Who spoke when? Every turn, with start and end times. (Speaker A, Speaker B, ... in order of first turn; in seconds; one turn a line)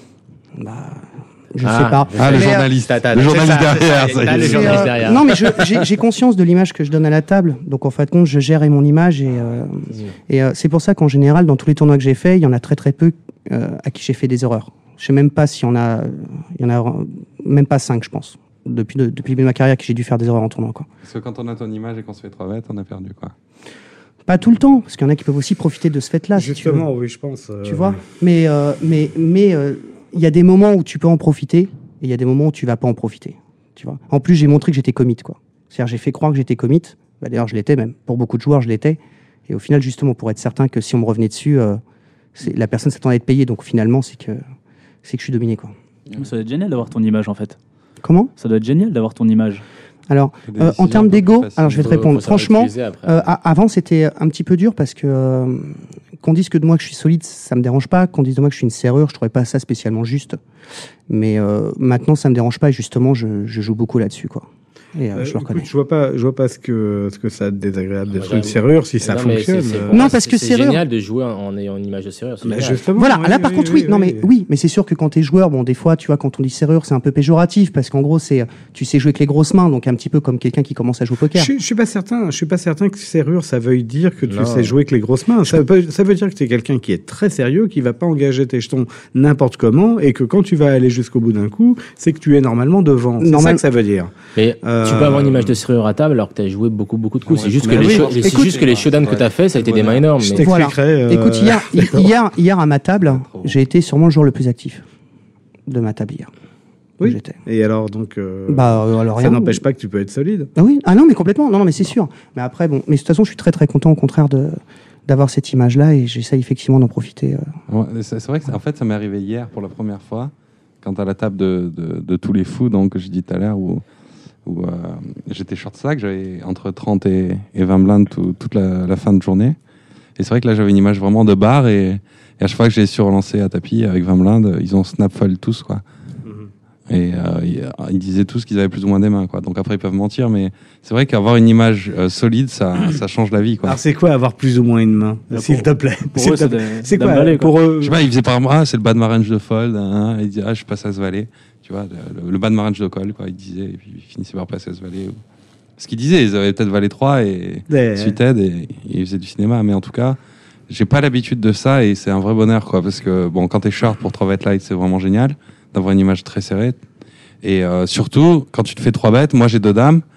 Speaker A: 0.6-2.7
Speaker B: 1.6-5.3
Speaker C: 2.2-5.1
Speaker A: 4.4-20.9
Speaker C: 21.0-23.3
Speaker A: 24.3-26.9
Speaker D: 26.4-28.0
Speaker A: 27.6-41.8
Speaker A: 42.4-44.4
Speaker A: 45.0-45.7
Speaker E: 46.2-47.6
Speaker A: 48.0-48.3
Speaker E: 48.4-49.6
Speaker A: 50.1-60.4
Speaker C: 50.5-51.9
Speaker B: 51.7-53.3
Speaker A: 61.1-65.7
Speaker D: 65.1-70.1
Speaker B: 68.1-72.9
Speaker A: 69.9-70.8
Speaker D: 72.4-74.3
Speaker A: 73.0-81.5
Speaker D: 81.3-95.6
Speaker B: 84.3-84.7
Speaker A: 93.2-93.6
Speaker B: 94.4-100.4
Speaker C: 97.3-100.1
Speaker D: 97.7-98.1
Speaker A: 98.2-98.5
Speaker D: 100.2-102.1
Speaker A: 100.4-104.8
Speaker C: 103.1-103.6
Speaker A: 105.7-106.3
Speaker D: 107.0-110.5
Speaker A: 107.0-107.4
Speaker A: 108.5-109.6
Speaker A: 110.6-117.5
Speaker C: 117.7-123.8
Speaker C: 124.5-129.6
Speaker C: 130.2-135.8
Speaker D: 136.2-136.5
Speaker C: 136.9-143.8
Speaker D: 143.6-148.0
Speaker E: 145.3-147.6
Speaker C: 147.8-155.2
Speaker C: 155.8-160.2
Speaker D: 157.7-158.2
Speaker C: 160.7-166.8
Speaker C: 167.4-170.0